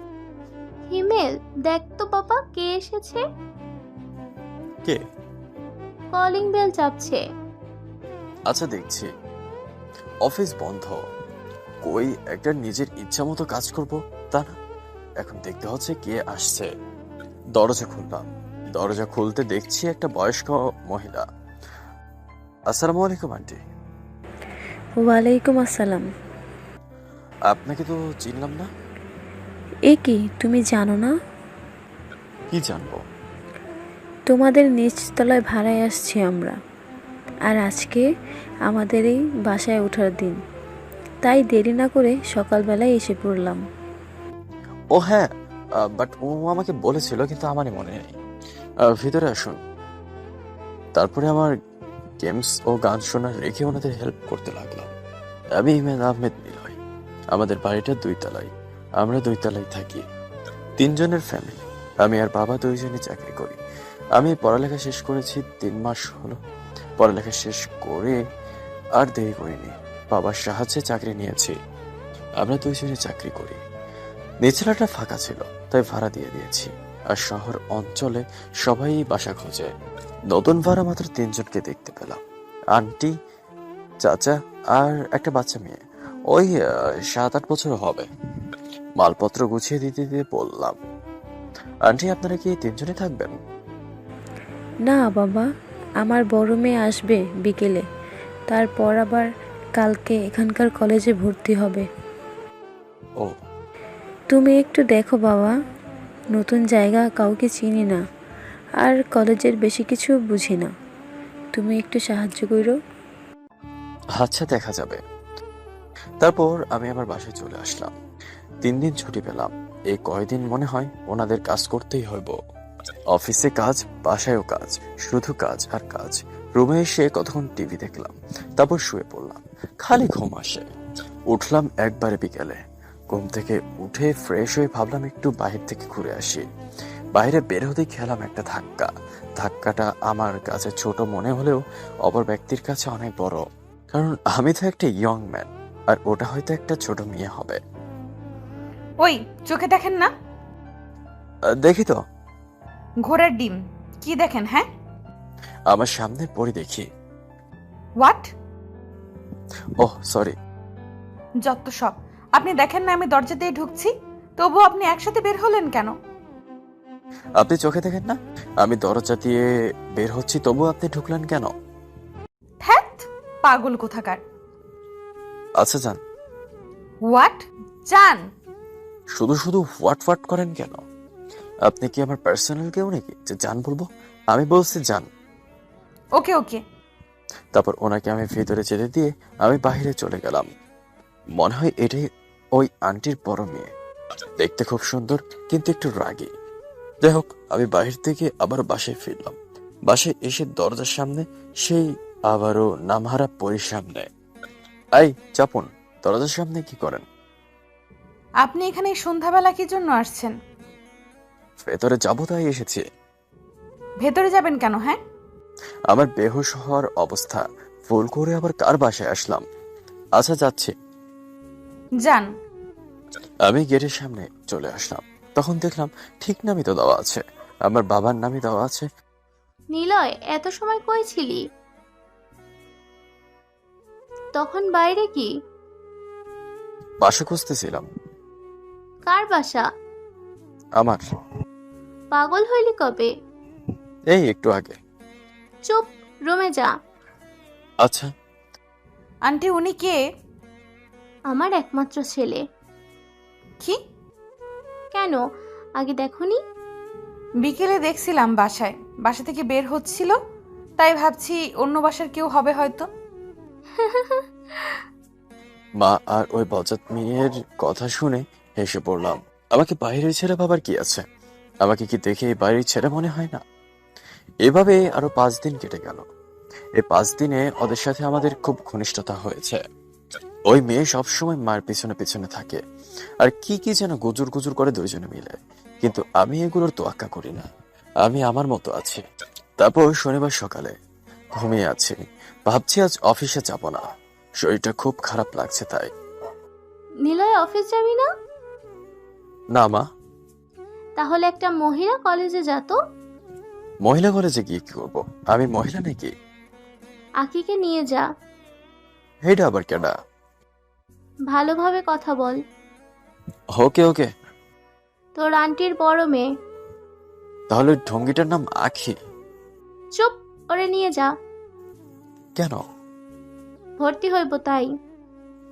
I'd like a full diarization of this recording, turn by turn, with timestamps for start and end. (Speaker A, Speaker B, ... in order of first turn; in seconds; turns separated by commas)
Speaker A: 0.9-3.2, Speaker A: 6.1-7.2, Speaker B: 8.5-9.1, Speaker B: 10.2-11.0, Speaker B: 11.8-14.5, Speaker B: 15.2-16.7, Speaker B: 17.6-21.2, Speaker B: 22.7-23.6, Speaker C: 25.0-26.1, Speaker B: 27.5-28.7, Speaker C: 29.9-31.1, Speaker B: 32.5-33.0, Speaker C: 34.3-36.6, Speaker C: 37.5-38.0, Speaker C: 38.7-40.4, Speaker C: 41.2-43.6, Speaker B: 45.0-45.3, Speaker B: 45.8-48.1, Speaker B: 48.9-49.6, Speaker B: 51.0-51.5, Speaker B: 52.2-54.9, Speaker B: 55.6-56.8, Speaker B: 57.3-60.0, Speaker B: 60.8-63.6, Speaker B: 64.2-66.4, Speaker B: 67.0-68.2, Speaker B: 69.0-71.5, Speaker B: 72.4-73.6, Speaker B: 74.4-79.7, Speaker B: 80.3-82.2, Speaker B: 82.7-83.1, Speaker B: 84.0-88.1, Speaker B: 89.0-90.8, Speaker B: 91.9-93.4, Speaker C: 94.9-95.5, Speaker C: 96.0-97.8, Speaker C: 98.5-101.8, Speaker C: 104.3-105.5, Speaker C: 106.3-108.0, Speaker C: 108.8-110.7, Speaker C: 111.5-112.7, Speaker B: 114.2-115.0, Speaker B: 116.2-117.9, Speaker B: 118.6-122.3, Speaker B: 123.1-130.7, Speaker B: 131.3-132.6, Speaker B: 133.1-136.4, Speaker B: 137.1-147.6, Speaker D: 149.0-150.1, Speaker B: 151.6-152.0, Speaker D: 153.1-154.7, Speaker B: 155.7-156.9, Speaker D: 158.0-158.3, Speaker B: 159.8-160.3, Speaker D: 161.5-165.9, Speaker B: 167.4-169.4, Speaker B: 170.0-171.5, Speaker D: 172.6-174.2, Speaker B: 175.6-176.0, Speaker D: 177.0-178.2, Speaker B: 179.2-180.8, Speaker B: 181.7-185.1, Speaker D: 186.2-186.6, Speaker B: 187.5-190.5, Speaker B: 191.4-192.1, Speaker B: 192.6-193.7, Speaker B: 194.4-196.3, Speaker B: 197.0-199.3, Speaker B: 199.9-204.1, Speaker B: 204.9-207.0, Speaker D: 208.4-210.3, Speaker B: 211.6-212.8, Speaker D: 214.0-215.0, Speaker B: 215.9-219.4, Speaker B: 220.2-220.7, Speaker B: 223.4-228.9, Speaker A: 229.7-231.4, Speaker A: 234.3-235.3, Speaker B: 237.0-237.9, Speaker A: 239.1-239.6, Speaker A: 242.1-243.1, Speaker B: 244.1-244.8, Speaker A: 245.7-246.7, Speaker B: 247.8-248.1, Speaker D: 249.3-250.0, Speaker A: 251.3-252.4, Speaker A: 254.9-255.2, Speaker A: 255.8-256.4, Speaker D: 257.4-260.1, Speaker D: 260.8-262.9, Speaker A: 263.8-264.2, Speaker B: 265.8-271.0, Speaker B: 271.6-273.4, Speaker B: 274.4-276.0, Speaker B: 276.8-279.6, Speaker B: 280.5-282.6, Speaker B: 283.2-287.5, Speaker B: 288.0-289.0, Speaker B: 289.6-290.7, Speaker B: 291.4-293.8, Speaker B: 294.4-295.9, Speaker A: 297.0-298.1, Speaker B: 299.6-299.8, Speaker A: 301.0-302.8, Speaker B: 303.8-306.1, Speaker A: 307.2-308.0, Speaker B: 309.2-309.9, Speaker A: 311.3-312.4, Speaker B: 313.6-314.1, Speaker A: 315.1-316.2, Speaker B: 317.5-318.9, Speaker A: 319.9-321.1, Speaker B: 322.4-322.6, Speaker A: 323.8-324.7